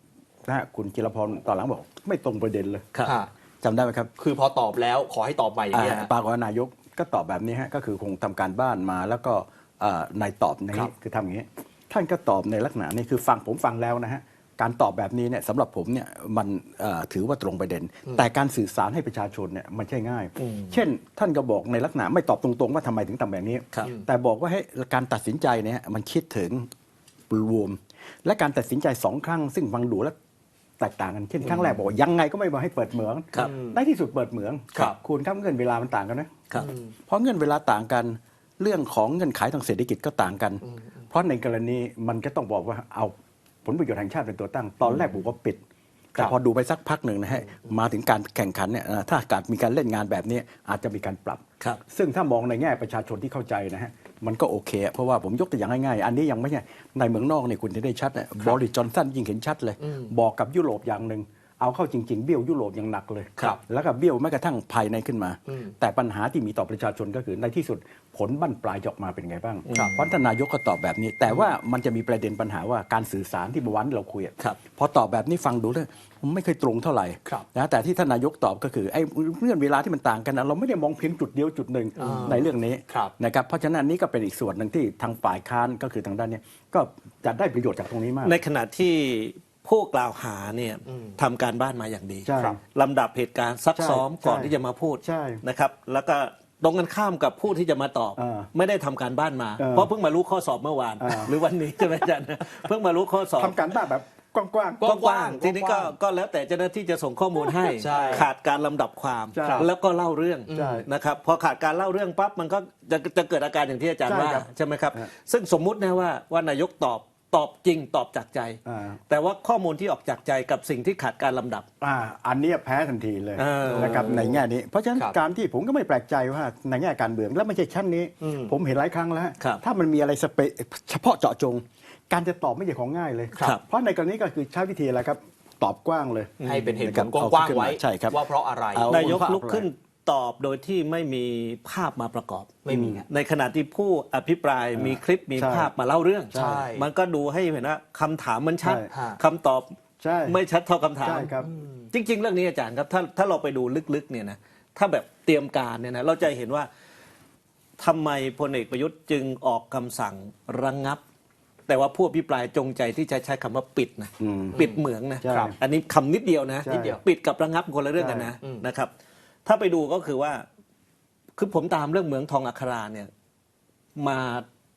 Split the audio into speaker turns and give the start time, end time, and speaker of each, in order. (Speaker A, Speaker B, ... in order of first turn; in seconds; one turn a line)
Speaker A: 0.5-2.9
Speaker B: 3.0-3.3
Speaker A: 3.6-4.1
Speaker B: 4.2-6.1
Speaker A: 5.7-26.7
Speaker C: 20.4-20.8
Speaker A: 27.3-30.1
Speaker A: 30.8-36.4
Speaker B: 31.4-31.8
Speaker B: 33.4-33.7
Speaker B: 36.6-36.9
Speaker A: 37.1-43.1
Speaker A: 43.6-45.6
Speaker A: 46.1-88.4
Speaker B: 59.8-60.1
Speaker C: 69.7-70.1
Speaker B: 69.7-70.0
Speaker B: 82.0-83.1
Speaker C: 88.2-103.6
Speaker B: 90.9-91.1
Speaker A: 92.2-92.6
Speaker A: 93.7-95.4
Speaker A: 98.2-98.5
Speaker A: 99.6-99.9
Speaker A: 101.0-101.3
Speaker A: 103.3-104.9
Speaker B: 104.8-105.9
Speaker C: 104.8-121.7
Speaker B: 107.7-108.3
Speaker A: 107.8-108.2
Speaker A: 109.3-109.7
Speaker B: 110.5-110.8
Speaker A: 110.5-110.9
Speaker A: 114.0-115.1
Speaker A: 118.7-119.0
Speaker A: 121.8-138.2
Speaker C: 123.4-124.4
Speaker B: 123.7-124.0
Speaker B: 128.2-128.5
Speaker C: 136.4-136.8
Speaker B: 136.4-138.9
Speaker A: 138.7-139.7
Speaker C: 138.9-142.6
Speaker B: 142.6-143.1
Speaker A: 142.7-143.0
Speaker C: 143.1-149.7
Speaker A: 144.8-145.7
Speaker B: 146.3-146.9
Speaker A: 146.3-146.6
Speaker A: 148.6-148.9
Speaker B: 148.9-149.2
Speaker A: 150.0-150.4
Speaker C: 150.3-151.4
Speaker A: 151.0-151.5
Speaker B: 151.5-151.8
Speaker C: 151.9-156.7
Speaker C: 157.8-161.0
Speaker C: 161.7-168.9
Speaker A: 164.2-164.6
Speaker B: 164.5-164.8
Speaker A: 165.2-165.6
Speaker A: 166.6-167.0
Speaker A: 168.0-168.3
Speaker C: 169.4-170.4
Speaker C: 171.4-173.1
Speaker C: 173.9-174.4